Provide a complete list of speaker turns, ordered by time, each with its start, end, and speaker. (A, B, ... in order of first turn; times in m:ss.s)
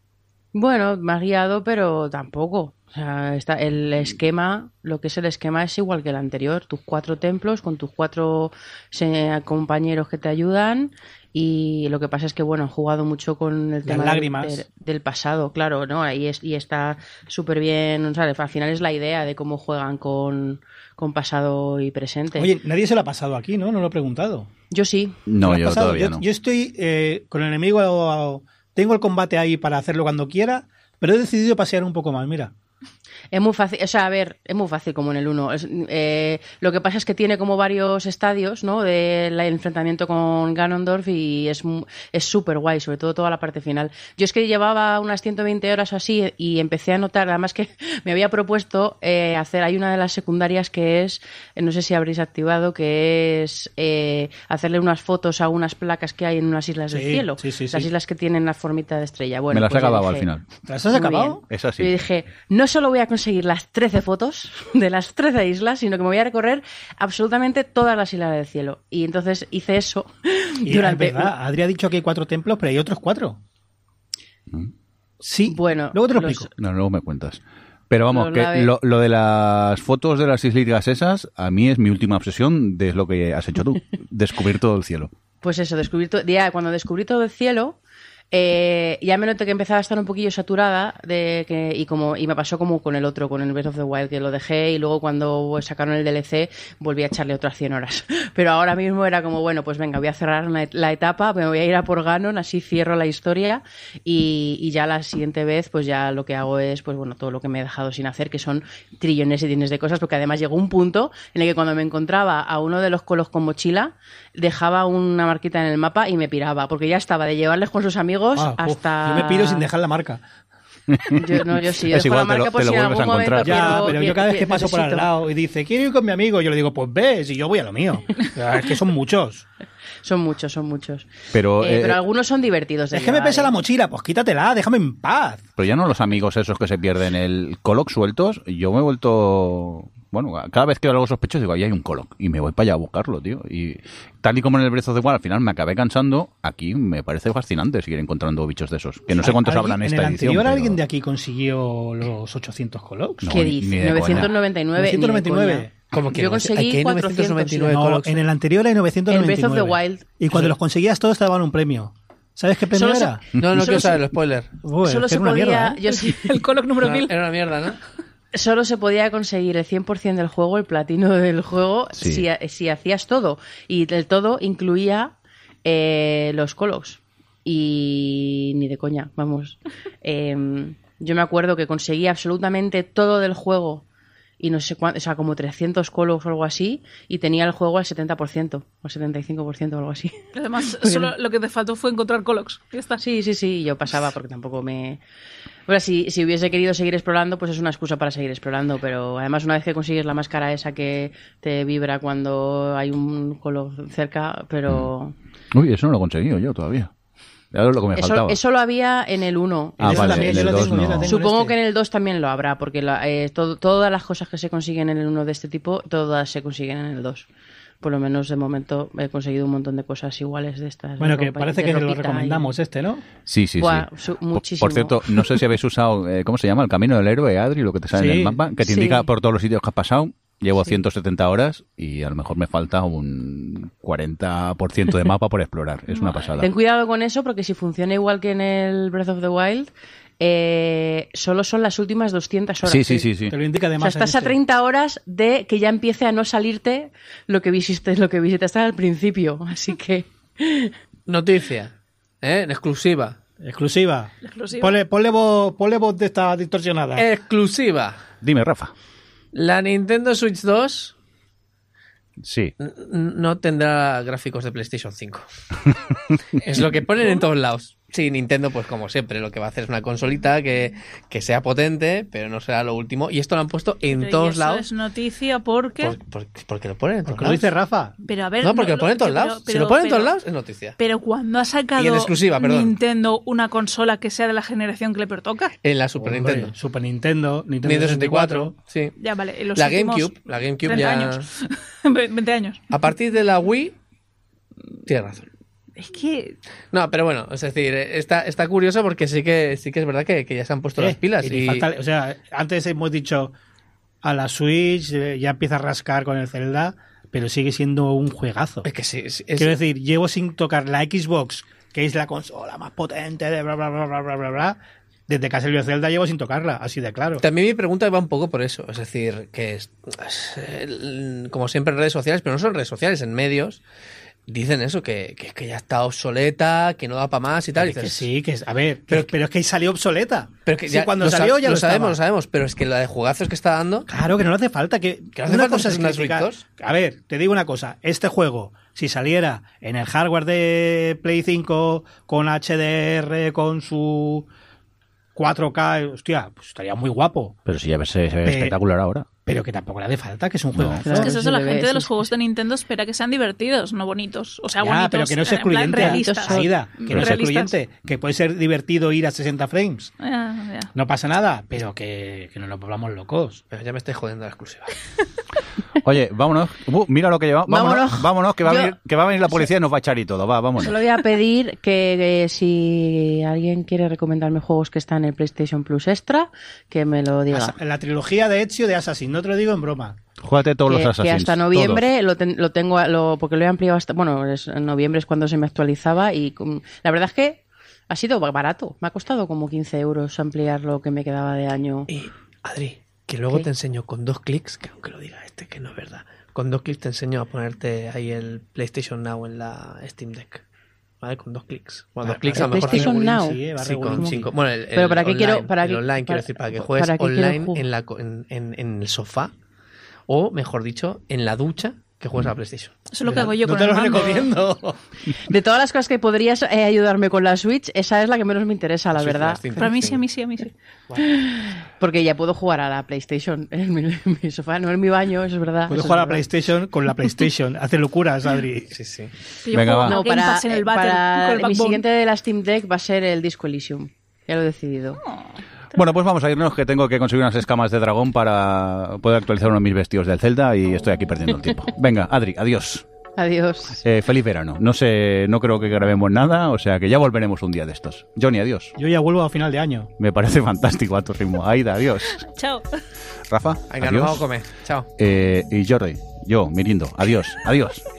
0:00.5-0:22.5 A
0:13.8-0:14.6 B
0:22.4-0:24.5 B
0:24.7-0:25.2 A
0:25.3-0:26.2 C
0:25.4-0:32.5 B
0:33.3-1:00.3 A
0:56.9-0:57.9 B
0:59.5-1:00.5 C
1:00.6-1:01.4 B
1:00.9-1:11.3 A
1:01.5-1:01.9 C
1:10.6-1:13.4 B
1:15.2-1:16.5 B
1:15.5-1:16.5 A
1:16.6-1:25.1 C
1:18.1-1:18.7 A
1:25.4-1:27.8 A
1:28.3-1:59.7 A
1:58.4-2:00.2 B
2:00.9-2:04.0 C
2:01.2-2:05.1 A
2:03.4-2:09.4 B
2:10.0-2:11.1 A
2:11.3-2:12.0 C
2:11.6-2:13.6 A
2:12.9-2:15.5 B
2:15.6-2:30.8 C
2:29.1-2:33.4 B
2:33.2-2:34.3 C
2:33.2-2:37.8 A
2:33.9-2:35.7 B
2:35.9-2:38.2 D
2:37.7-2:43.9 B
2:39.1-2:40.1 A
2:42.7-2:43.9 A
2:43.4-2:44.5 D
2:44.6-2:45.8 B
2:44.8-2:46.4 A
2:45.2-2:47.1 E
2:46.8-2:47.8 D
2:48.3-3:03.8 A
2:52.0-2:52.2 C
3:04.4-3:10.2 A
3:10.3-3:13.0 E
3:10.8-3:11.1 A
3:13.0-3:15.0 A
3:15.7-3:25.1 A
3:25.5-3:26.9 C
3:27.5-3:28.4 C
3:28.0-3:37.3 A
3:29.8-3:31.6 B
3:29.8-3:31.1 C
3:37.8-3:42.5 A
3:41.0-3:43.1 B
3:43.3-3:56.5 C
3:43.6-3:45.4 A
3:47.9-3:48.4 B
3:48.6-3:49.1 A
3:55.9-3:56.3 E
3:56.4-4:03.1 A
4:02.6-4:03.3 C
4:03.3-4:04.4 B
4:03.8-4:10.8 A
4:11.1-4:13.2 D
4:13.4-4:17.1 B
4:14.2-4:14.8 E
4:17.0-4:18.0 D
4:18.2-4:18.7 C
4:19.3-4:20.9 D
4:22.2-4:22.5 C
4:22.6-4:25.3 D
4:26.4-4:34.7 D
4:33.9-4:36.0 E
4:35.8-4:37.4 D
4:37.1-4:37.9 B
4:38.0-4:40.2 E
4:38.4-4:40.8 D
4:40.8-4:45.5 E
4:41.8-4:42.8 D
4:45.6-4:46.5 D
4:46.0-4:48.5 B
4:47.6-4:49.0 D
4:49.0-4:50.1 E
4:49.6-4:51.2 D
4:50.6-4:52.6 E
4:52.7-4:53.8 D
4:54.9-4:55.3 D
4:55.8-4:56.4 E
4:56.7-5:01.7 D
5:00.8-5:03.3 B
5:04.0-5:08.7 B
5:08.6-5:09.5 D
5:09.4-5:17.2 B
5:17.2-5:23.6 D
5:24.3-5:28.1 D
5:27.6-5:32.0 B
5:30.5-5:33.9 D
5:33.9-5:44.3 B
5:35.2-5:36.4 D
5:45.2-5:47.4 B
5:47.5-5:49.1 C
5:48.2-5:48.6 B
5:49.2-5:51.1 B
5:50.6-5:50.8 C
5:50.8-5:52.1 A
5:50.9-5:57.6 E
5:54.6-5:59.9 B
5:55.7-5:56.5 A
6:00.0-6:00.7 E
6:00.7-6:03.4 B
6:03.5-6:04.8 D
6:05.8-6:10.8 C
6:07.5-6:08.8 A
6:10.6-6:17.6 A
6:17.3-6:20.0 B
6:20.2-6:21.9 C
6:20.7-6:31.9 A
6:31.9-6:40.4 D
6:41.0-6:49.3 D
6:42.0-6:44.3 B
6:42.4-6:47.6 A
6:50.1-6:52.8 D
6:52.9-6:54.3 E
6:53.0-6:54.8 B
6:55.2-7:00.0 A
6:58.9-7:00.0 D
6:59.6-7:00.5 E
7:01.0-7:06.2 A
7:05.7-7:08.7 B
7:08.7-7:09.1 D
7:09.4-7:11.8 E
7:09.5-7:10.0 C
7:09.8-7:15.0 A
7:15.0-7:15.4 E
7:15.8-7:22.8 C
7:23.2-7:23.8 A
7:23.8-7:28.7 C
7:28.8-7:29.9 B
7:30.0-7:32.2 C
7:32.2-7:32.7 E
7:33.3-7:34.3 C
7:33.7-7:34.9 D
7:35.0-7:37.8 C